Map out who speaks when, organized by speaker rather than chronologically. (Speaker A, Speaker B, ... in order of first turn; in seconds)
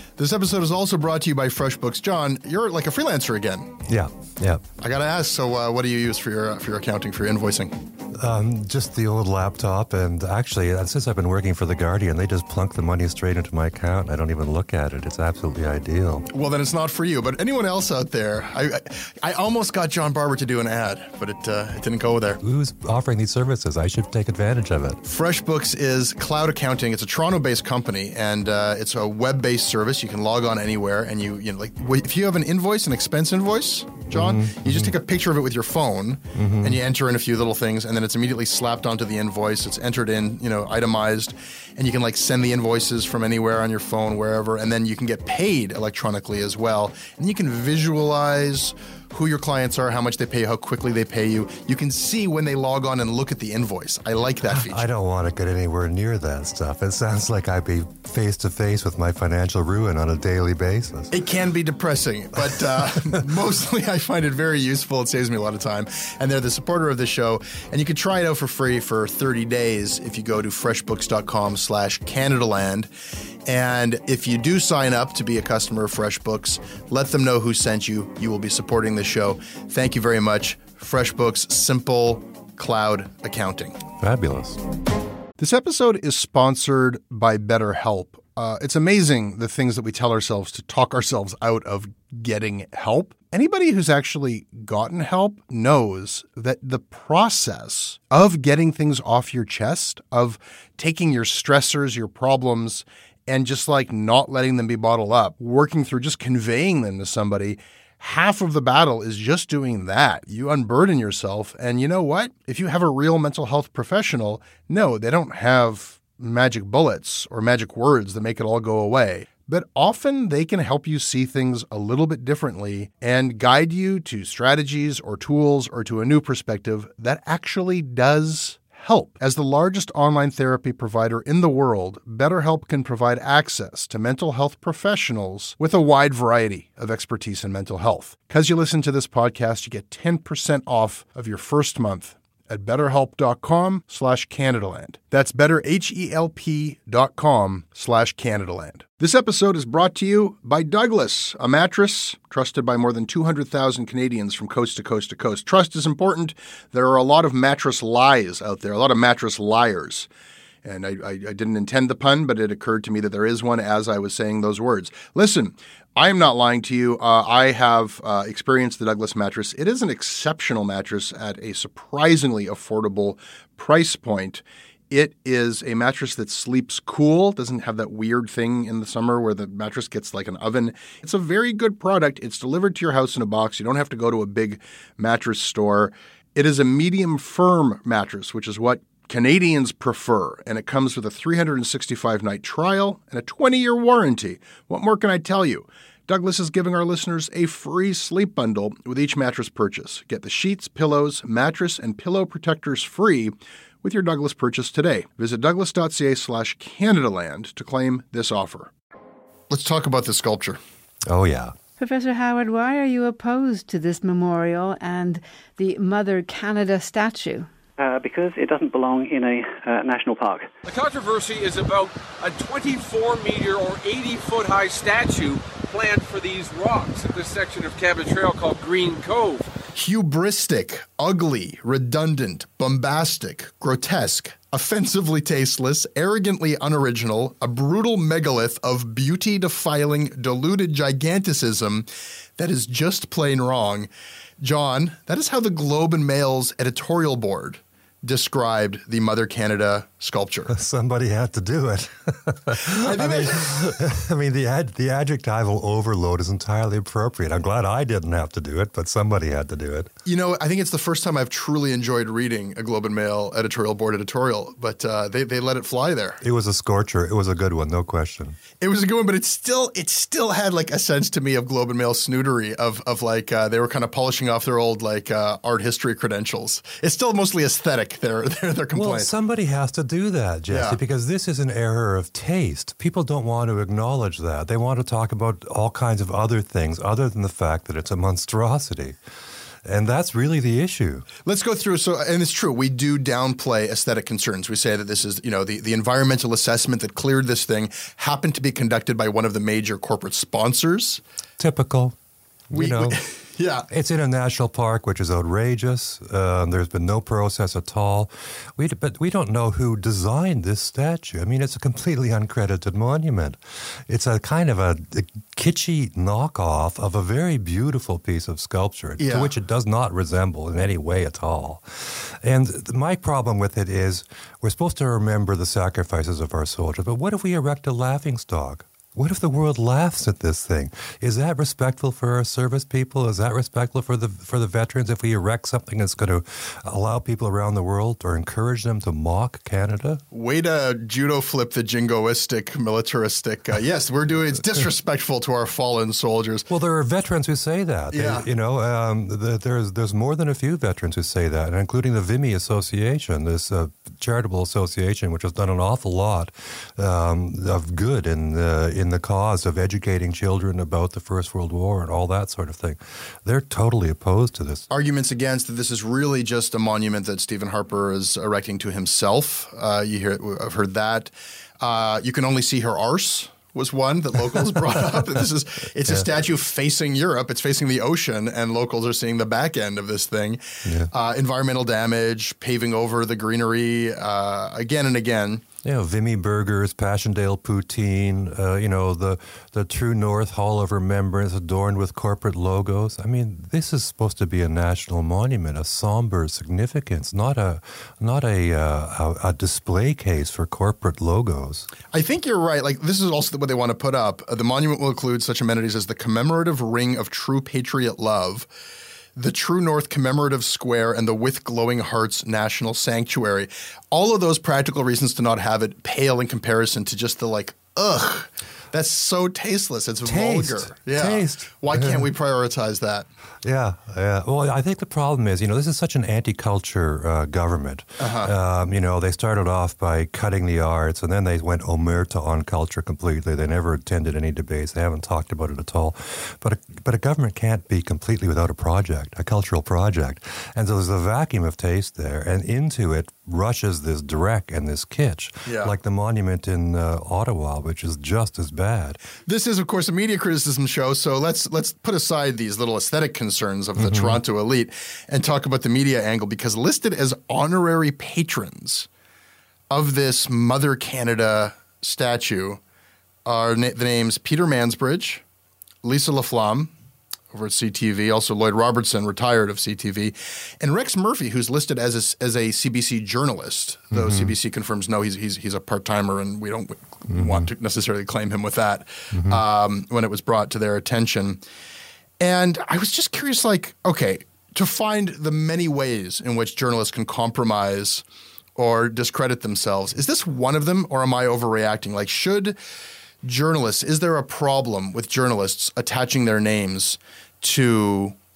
Speaker A: 0.2-3.8, 4.8-7.7, 16.3-22.4, 25.0-54.8, 61.1-72.9, 73.5-83.8, 85.4-160.1, 160.6-208.7, 209.5-210.6, 229.8-241.9, 242.4-250.5, 252.7-253.8, 260.1-266.2, 268.6-279.1, 280.5-280.8, 291.2-301.0, 302.5-303.7, 319.0-319.3, 340.1-346.5, 347.9-348.3, 364.7-385.4, 401.9-408.5, 409.1-423.1, 428.0-428.3, 445.5-445.7, 449.3-458.9, 459.7-462.6, 463.2-465.2, 465.8-466.7, 467.3-481.4, 482.2-488.0, 488.6-492.6, 493.2-498.1
Speaker B: 3.9-4.6, 8.2-16.2, 22.4-25.0, 34.1-34.9, 36.3-36.8, 54.5-61.1, 84.0-84.6, 211.1-211.5, 250.5-259.9, 266.2-268.4, 278.7-289.0, 289.6-291.1, 301.4-301.9, 302.5-303.0, 303.7-340.0, 346.5-364.7, 380.6-380.9, 385.6-401.7, 420.0-422.1, 423.4-449.0, 453.8-454.2, 473.9-474.3, 477.1-477.5, 479.1-479.4
Speaker C: 211.8-217.5
Speaker D: 217.8-220.5
Speaker E: 220.7-229.5